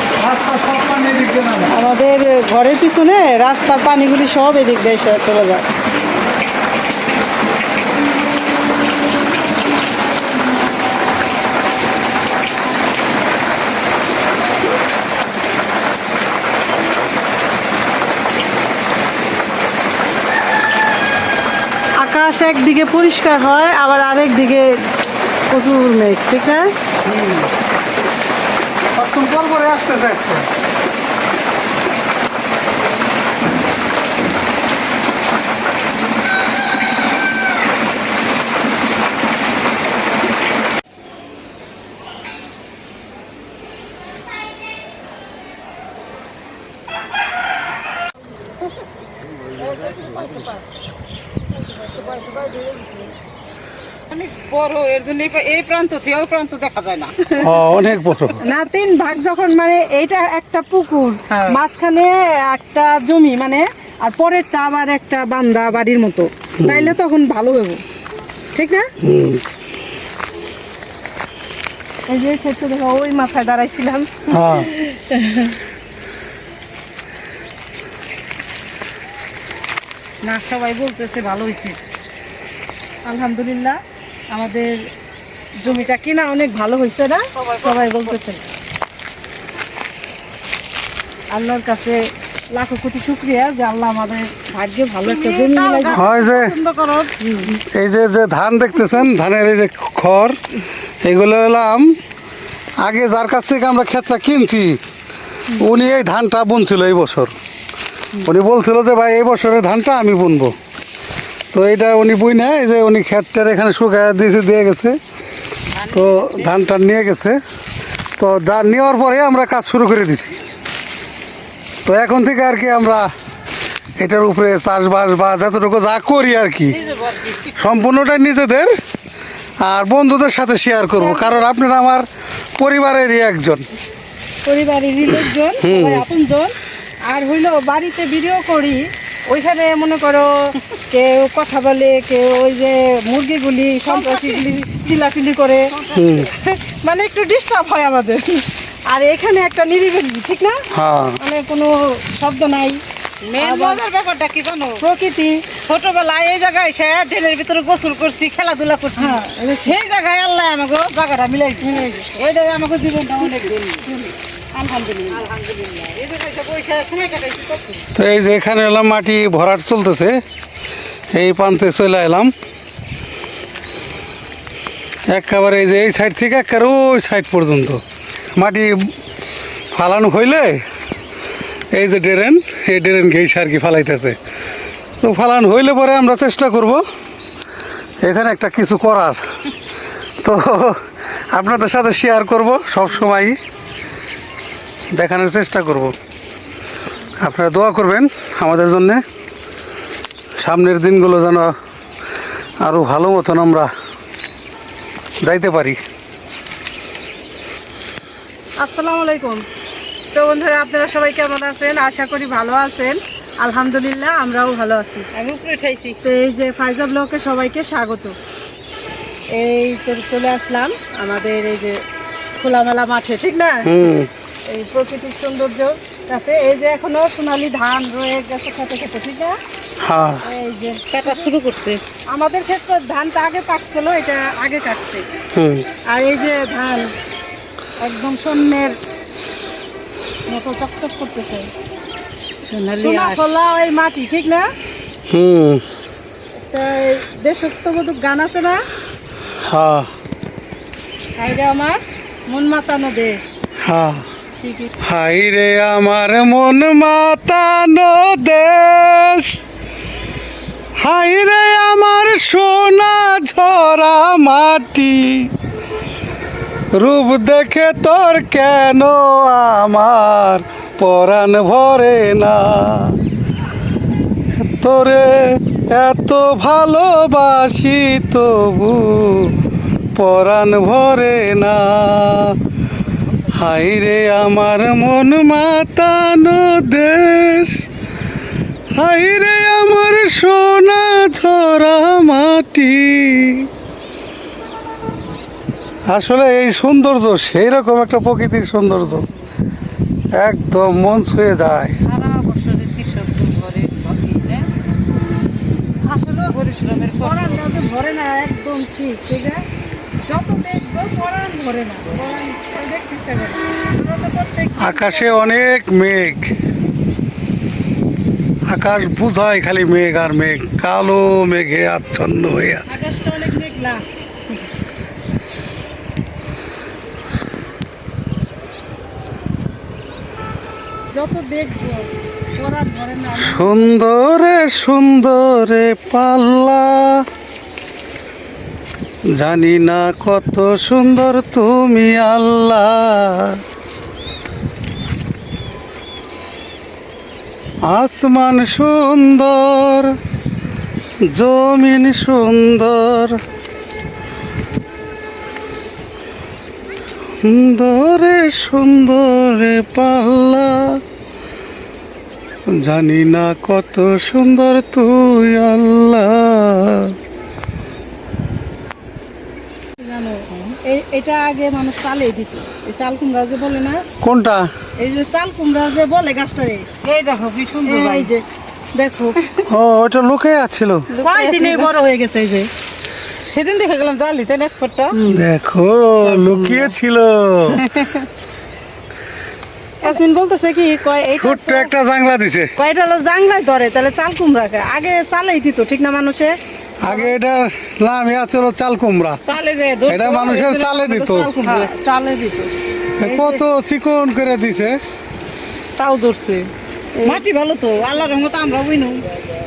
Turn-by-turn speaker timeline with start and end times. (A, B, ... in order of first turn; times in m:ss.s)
0:00.2-0:01.7 A
0:01.7-0:05.6 B
0:22.0-0:24.8 B
0:25.5-0:26.7 B
0:27.0-0:27.5 A
0:28.9-0:30.5 A
0:49.5-0:50.6 B
0:51.6-0:53.1 B
0:54.1-0:57.3 C
0:57.4-0:58.4 A
0:58.4-1:07.8 B
1:01.3-1:01.6 C
1:06.6-1:06.9 A
1:08.5-1:08.9 B
1:09.0-1:09.4 A
1:12.1-1:15.6 B
1:14.3-1:14.7 A
1:20.2-1:21.8 C
1:23.0-1:24.7 B
1:25.6-1:28.4 B
1:27.3-1:28.2 C
1:31.3-1:37.5 B
1:35.0-1:36.0 C
1:35.9-1:36.6 A
1:37.4-1:40.4 A
1:41.0-1:41.9 A
1:42.8-1:44.8 A
1:45.6-1:47.3 A
1:48.2-1:50.6 A
1:51.5-1:55.0 A
1:55.7-1:56.6 C
1:55.9-1:57.4 A
1:58.2-2:00.4 A
2:01.8-2:03.1 A
2:04.0-2:06.8 A
2:06.7-2:07.5 C
2:07.5-2:08.7 A
2:09.6-2:12.0 A
2:11.0-2:11.4 B
2:12.6-2:13.7 A
2:14.4-2:16.5 B
2:15.6-2:16.0 A
2:17.0-2:25.7 B
2:23.9-2:24.4 C
2:25.7-2:26.1 C
2:25.9-2:26.3 A
2:26.2-2:30.6 B
2:30.7-2:31.2 A
2:31.2-2:32.8 B
2:33.2-2:34.8 C
2:33.4-2:33.8 B
2:34.8-2:35.4 B
2:35.6-2:44.0 C
2:39.0-2:39.7 B
2:41.6-2:42.2 B
2:44.5-2:47.8 C
2:47.9-2:50.2 A
2:51.1-2:52.3 A
2:55.1-2:57.8 A
2:58.3-2:58.9 A
2:59.7-3:00.6 A
3:01.7-3:04.2 A
3:05.0-3:06.8 A
3:08.0-3:09.2 A
3:10.2-3:13.4 A
3:14.9-3:15.9 A
3:17.2-3:19.0 A
3:20.4-3:21.5 A
3:22.6-3:23.7 A
3:25.2-3:25.8 A
3:28.6-3:29.4 B
3:30.1-3:35.1 B
3:35.1-3:36.0 C
3:36.0-3:38.2 B
3:39.3-3:41.8 B
3:42.4-3:43.7 B
3:43.6-3:44.1 A
3:44.5-3:49.4 B
3:49.8-3:50.2 A
3:50.2-3:51.3 B
3:50.9-3:51.8 C
3:52.1-3:55.1 B
3:55.3-3:55.6 A
3:55.9-3:56.9 B
3:57.8-3:58.8 B
4:00.3-4:01.5 B
4:02.4-4:03.3 C
4:02.8-4:04.5 B
4:05.1-4:05.6 A
4:06.3-4:08.7 B
4:09.4-4:09.9 A
4:11.2-4:13.3 B
4:13.6-4:14.0 A
4:14.4-4:14.7 B
4:14.8-4:19.4 A
4:20.8-4:25.3 A
4:26.7-4:33.0 A
4:34.4-4:39.4 A
4:39.9-4:42.4 A
4:43.3-4:47.6 A
4:48.7-4:53.5 A
4:55.9-4:59.1 A
5:00.1-5:01.8 A
5:01.8-5:04.5 C
5:05.9-5:07.5 C
5:06.0-5:09.4 B
5:10.0-5:15.3 B
5:14.6-5:16.3 A
5:18.5-5:22.8 A
5:22.7-5:23.8 B
5:30.9-5:33.7 B
5:33.2-5:37.0 A
5:39.1-5:43.4 A
5:47.6-5:50.0 A
5:51.1-5:53.2 A
5:57.2-6:00.8 A
6:02.5-6:07.0 A
6:09.8-6:13.8 B
6:14.0-6:14.5 A
6:14.8-6:16.7 B
6:16.8-6:18.1 C
6:17.6-6:18.2 B
6:18.7-6:19.2 B
6:19.5-6:20.9 A
6:20.9-6:21.7 C
6:21.0-6:22.5 B
6:23.2-6:25.0 C
6:25.0-6:27.6 A
6:26.0-6:26.7 C
6:29.8-6:31.7 B
6:31.1-6:32.5 A
6:32.6-6:37.1 B
6:36.8-6:39.2 A
6:39.2-6:41.7 C
6:39.9-6:41.3 A
6:41.0-6:43.4 B
6:43.0-6:44.8 A
6:45.8-6:46.5 C
6:47.0-6:47.2 B
6:47.0-6:49.1 C